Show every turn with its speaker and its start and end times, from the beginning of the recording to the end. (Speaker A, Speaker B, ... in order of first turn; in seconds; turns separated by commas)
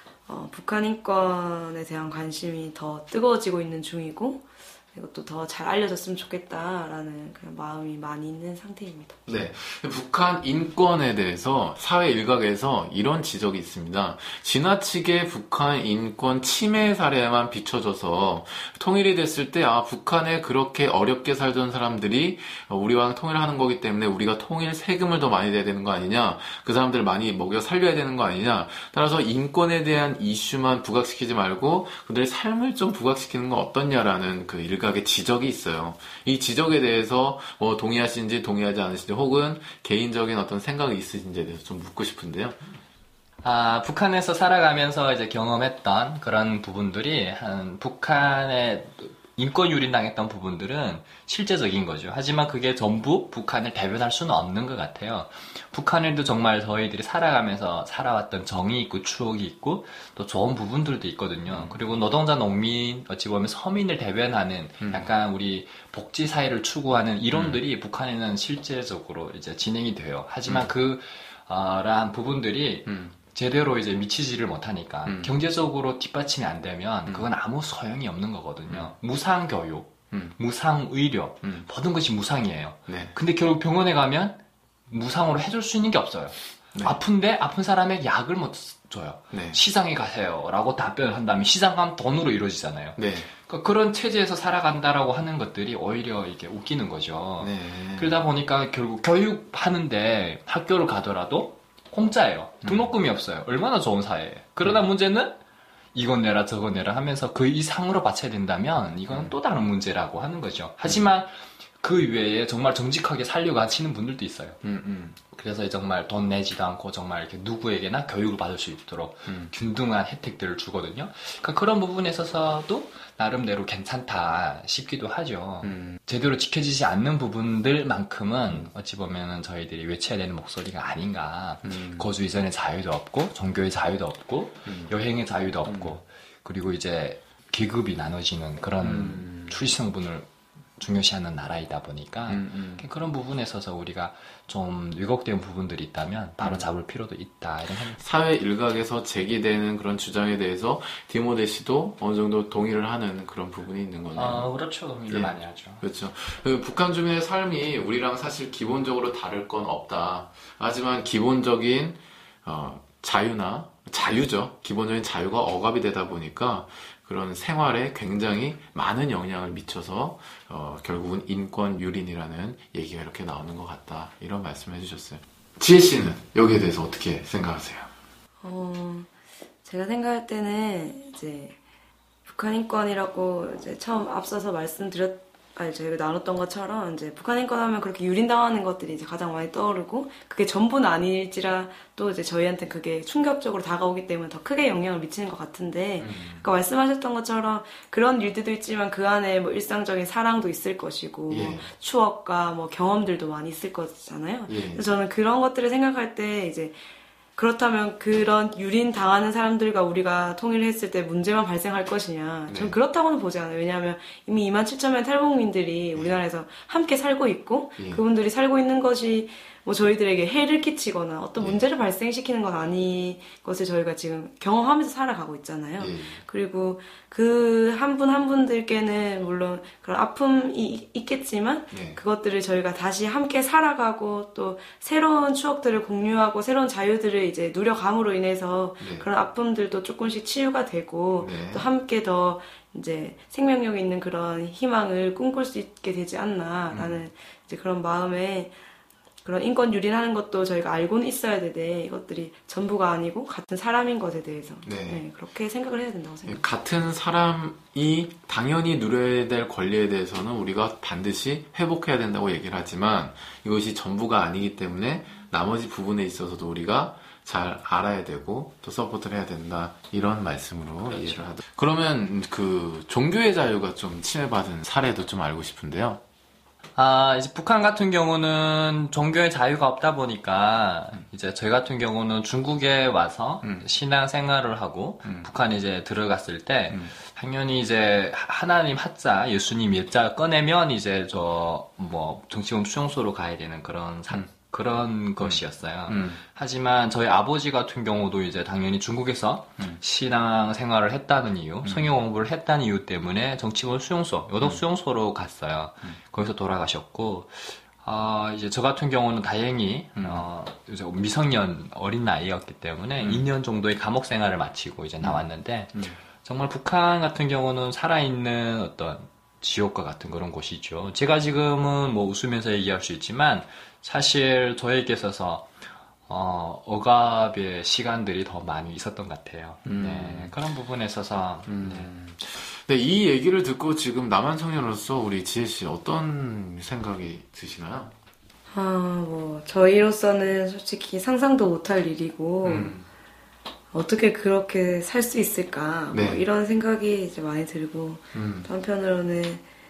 Speaker A: 0.3-9.2, Speaker B: 9.3-42.6, Speaker C: 43.4-105.4, Speaker B: 61.5-61.8, Speaker B: 64.8-65.1, Speaker B: 67.3-67.6, Speaker B: 72.8-73.1, Speaker B: 75.0-75.3, Speaker B: 78.7-78.9, Speaker B: 82.9-83.1, Speaker B: 89.3-89.6, Speaker B: 93.0-93.3, Speaker B: 97.4-98.2, Speaker B: 102.6-102.9, Speaker C: 105.9-114.6, Speaker B: 109.1-109.3, Speaker B: 114.6-115.2, Speaker C: 115.3-140.3, Speaker B: 119.3-119.5, Speaker B: 125.6-126.0, Speaker B: 131.6-132.1, Speaker B: 134.7-134.9, Speaker B: 135.7-136.0, Speaker B: 138.8-139.5, Speaker C: 140.8-148.0, Speaker B: 142.3-142.8, Speaker B: 148.0-154.5, Speaker C: 154.1-155.8, Speaker B: 155.1-177.9, Speaker A: 178.4-179.1, Speaker A: 179.6-181.6, Speaker A: 182.2-206.8, Speaker B: 196.0-196.5, Speaker B: 201.3-201.7, Speaker B: 204.5-204.8, Speaker A: 207.3-248.5, Speaker B: 212.5-212.8, Speaker B: 225.8-226.2, Speaker B: 231.7-232.0, Speaker B: 238.8-239.1, Speaker B: 241.2-241.7, Speaker B: 246.7-247.0, Speaker A: 249.2-256.4, Speaker B: 254.6-255.0, Speaker B: 256.3-276.0, Speaker C: 270.9-271.2, Speaker C: 276.8-325.5, Speaker B: 295.2-296.2, Speaker B: 310.0-310.2, Speaker B: 313.0-313.2, Speaker C: 326.1-331.9, Speaker B: 329.6-330.3, Speaker B: 331.5-337.9, Speaker A: 338.5-342.7, Speaker B: 342.4-342.8, Speaker A: 343.7-349.4, Speaker B: 345.9-346.2, Speaker B: 348.1-348.5